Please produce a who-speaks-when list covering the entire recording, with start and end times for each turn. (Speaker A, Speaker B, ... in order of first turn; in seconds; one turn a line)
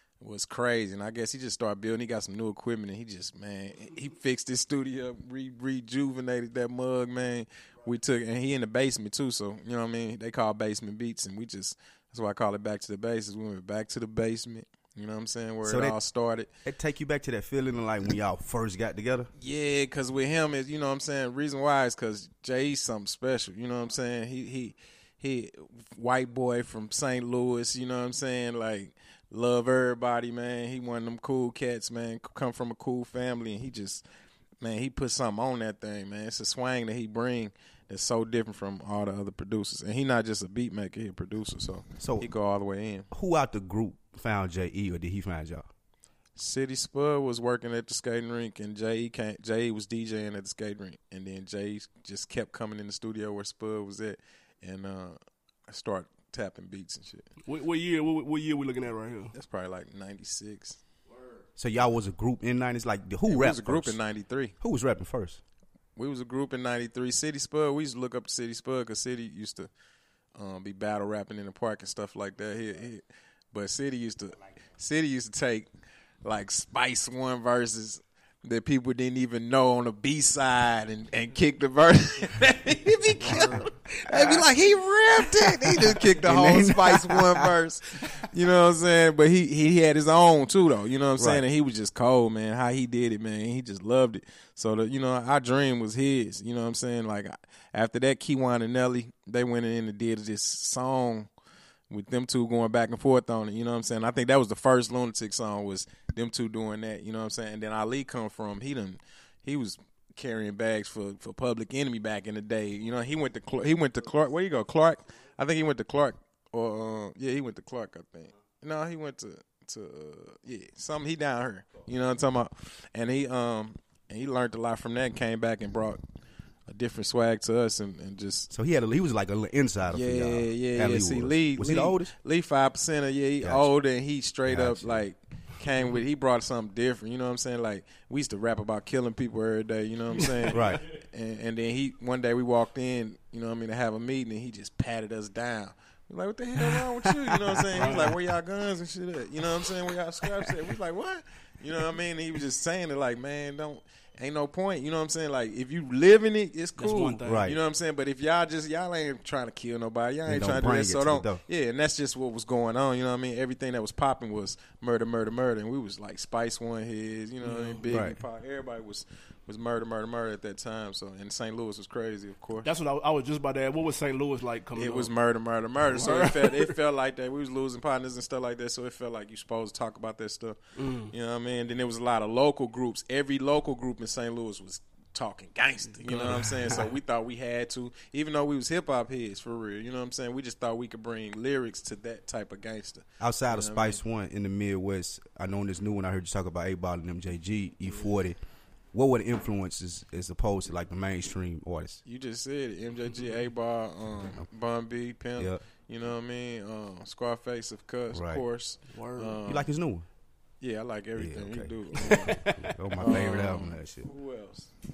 Speaker A: 0.2-16.5
Speaker B: 15.6-16.0
Speaker B: 16.6-19.3
Speaker A: 19.4-34.0
Speaker A: 34.6-43.1
Speaker B: 42.0-42.3
Speaker B: 43.1-45.7
Speaker A: 46.4-57.3
Speaker C: 57.5-59.3
Speaker A: 59.3-60.8
Speaker B: 61.6-64.0
Speaker A: 63.2-64.5
Speaker B: 64.6-65.4
Speaker A: 66.0-69.7
Speaker A: 70.3-75.7
Speaker A: 76.2-101.3
Speaker C: 83.2-83.7
Speaker B: 83.3-84.5
Speaker B: 85.3-87.5
Speaker B: 91.2-91.4
Speaker A: 101.9-126.0
Speaker A: 126.7-128.5
Speaker B: 128.5-132.1
Speaker A: 129.9-172.7
Speaker B: 133.4-133.7
Speaker B: 134.4-135.1
Speaker B: 140.5-140.8
Speaker B: 146.6-148.2
Speaker C: 147.7-148.2
Speaker B: 149.5-150.5
Speaker C: 156.8-157.5
Speaker B: 157.2-157.6
Speaker B: 160.2-161.4
Speaker C: 167.4-167.8
Speaker B: 167.9-168.2
Speaker C: 172.6-175.1
Speaker A: 174.7-180.6
Speaker C: 175.8-176.8
Speaker C: 180.8-181.1
Speaker A: 181.1-194.0
Speaker C: 186.1-186.8
Speaker B: 186.3-186.9
Speaker B: 193.2-198.4
Speaker B: 198.9-202.0
Speaker A: 202.0-209.7
Speaker B: 204.1-204.4
Speaker B: 208.1-208.4
Speaker C: 208.9-209.4
Speaker B: 209.4-210.1
Speaker A: 210.6-214.7
Speaker B: 211.2-214.1
Speaker C: 212.0-212.5